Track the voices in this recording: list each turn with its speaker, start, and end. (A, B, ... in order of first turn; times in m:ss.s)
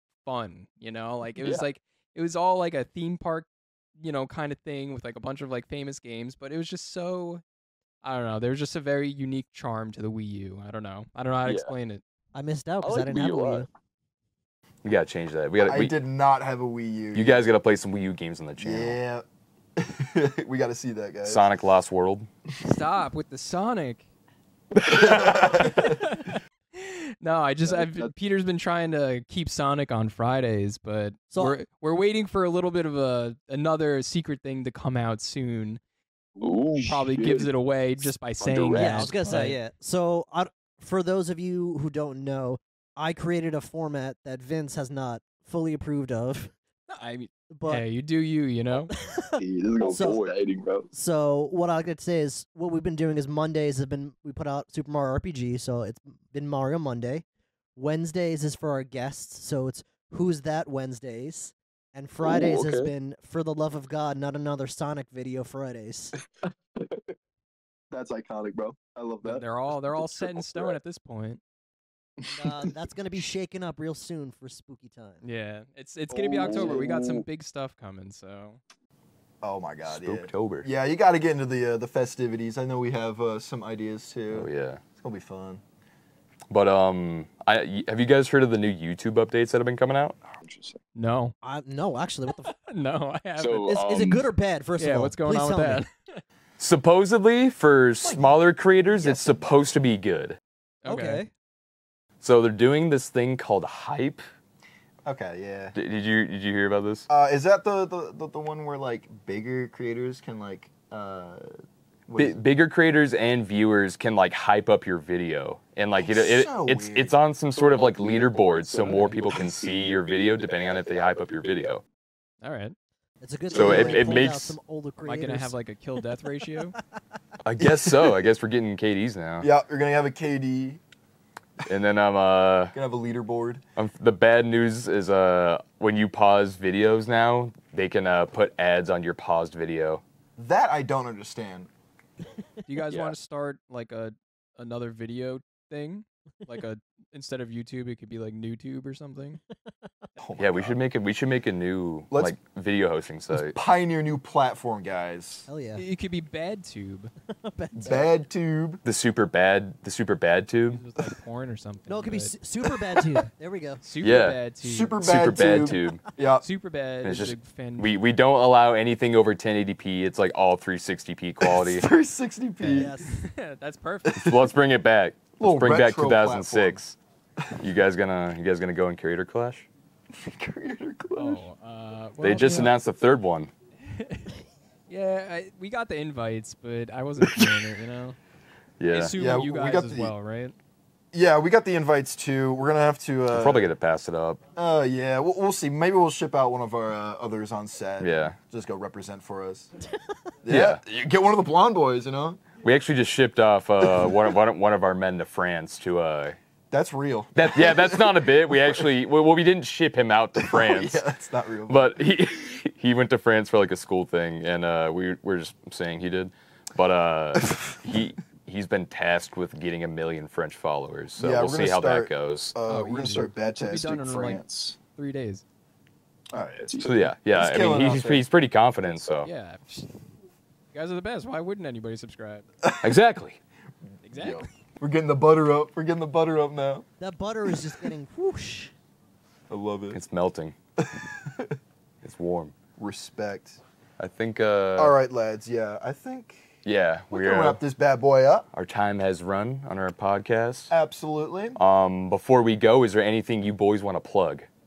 0:00.2-0:03.5 A
0:01.4-0:01.6 B
0:04.0-0:07.4 A
0:08.0-0:12.0 A
0:11.4-0:11.7 B
0:12.3-0:13.7 C
0:12.8-0:13.7 B
0:14.8-0:15.9 D
0:15.6-0:17.5 E
0:17.1-0:19.0 D
0:18.6-0:19.2 E
0:19.8-0:21.5 E
0:21.2-0:22.3 D
0:22.6-0:24.0 A
0:24.8-0:26.0 E
0:25.4-0:35.8 A
0:27.6-0:28.1 B
0:31.3-0:31.6 C
0:36.4-0:37.5 B
0:36.8-0:39.6 A
0:38.4-0:39.3 B
0:38.8-0:46.5 C
0:46.9-0:48.9 A
0:47.5-0:47.8 C
0:49.0-0:50.2 C
0:49.4-0:50.9 B
0:50.9-0:57.2 C
0:57.8-1:06.1 C
1:02.2-1:02.9 B
1:07.9-1:09.4 E
1:07.9-1:10.8 B
1:09.2-1:11.4 A
1:12.2-1:12.7 B
1:12.2-1:15.2 C
1:15.2-1:18.6 A
1:16.1-1:17.2 B
1:16.5-1:16.8 E
1:19.4-1:25.6 E
1:19.8-1:20.7 D
1:24.3-1:24.8 D
1:26.5-1:30.2 D
1:30.4-1:30.8 B
1:30.9-1:31.3 A
1:31.4-1:32.5 C
1:32.4-1:33.7 A
1:33.4-1:34.3 B
1:33.6-1:35.8 C
1:34.8-1:36.2 A
1:36.6-1:40.4 D
1:38.0-1:38.4 E
1:40.8-1:41.3 A
1:40.8-1:41.3 C
1:42.2-1:44.2 D
1:45.0-1:45.7 E
1:45.7-1:47.1 D
1:47.1-1:51.5 E
1:52.1-1:52.4 E
1:52.2-2:01.8 D
1:56.0-1:57.1 E
1:57.5-2:01.2 B
2:02.4-2:02.7 A
2:03.2-2:05.5 C
2:03.5-2:04.3 E
2:03.5-2:04.6 D
2:05.0-2:06.8 A
2:07.4-2:09.5 D
2:07.6-2:08.2 E
2:09.4-2:10.8 E
2:11.6-2:12.8 D
2:12.7-2:13.6 E
2:13.8-2:20.0 D
2:20.4-2:21.7 E
2:22.7-2:29.4 A
2:30.2-2:30.8 E
2:30.4-2:33.5 D
2:32.1-2:32.4 E
2:33.3-2:35.5 E
2:35.5-2:35.8 C
2:35.8-2:37.1 A
2:37.4-2:38.1 C
2:37.8-2:38.8 E
2:38.8-2:40.8 D
2:40.7-2:42.4 A
2:41.9-2:43.8 C
2:43.8-2:45.0 A
2:44.0-2:44.4 D
2:44.6-2:46.4 E
2:45.0-2:46.0 D
2:46.4-2:47.9 A
2:47.0-2:51.9 D
2:51.4-2:52.9 E
2:52.6-2:54.4 A
2:52.7-2:53.2 C
2:54.0-2:54.4 E
2:54.2-2:57.0 D
2:55.4-2:56.8 E
2:57.6-2:59.7 D
3:00.1-3:01.4 E
3:01.1-3:02.7 A
3:02.2-3:03.5 D
3:03.8-3:04.3 A
3:04.9-3:08.2 A
3:07.4-3:07.7 D
3:08.8-3:09.2 D
3:08.9-3:10.6 A
3:09.2-3:10.1 E
3:11.1-3:13.7 E
3:13.3-3:14.4 D
3:14.5-3:19.7 E
3:18.0-3:18.4 D
3:20.4-3:22.4 E
3:20.5-3:20.8 D
3:22.6-3:26.4 D
3:23.8-3:24.4 E
3:26.7-3:28.8 E
3:27.4-3:31.0 D
3:30.4-3:31.9 E
3:31.7-3:42.6 D
3:37.4-3:37.7 E
3:41.2-3:44.7 E
3:42.7-3:45.4 A
3:46.3-3:48.2 E
3:46.8-3:49.3 D
3:49.2-3:50.0 A
3:50.7-3:52.4 A
3:52.6-3:52.9 E
3:52.8-3:53.4 D
3:54.0-3:54.5 A
3:54.2-3:56.8 E
3:57.0-3:58.7 C
3:57.5-3:57.7 E
3:59.5-4:00.0 E
3:59.9-4:00.5 D
4:00.8-4:01.6 E
4:02.0-4:02.5 D
4:02.8-4:03.6 E
4:04.0-4:04.9 D
4:04.8-4:06.6 E
4:06.6-4:07.6 D
4:07.1-4:08.4 E
4:08.5-4:10.7 D
4:10.7-4:11.6 E
4:11.6-4:14.5 D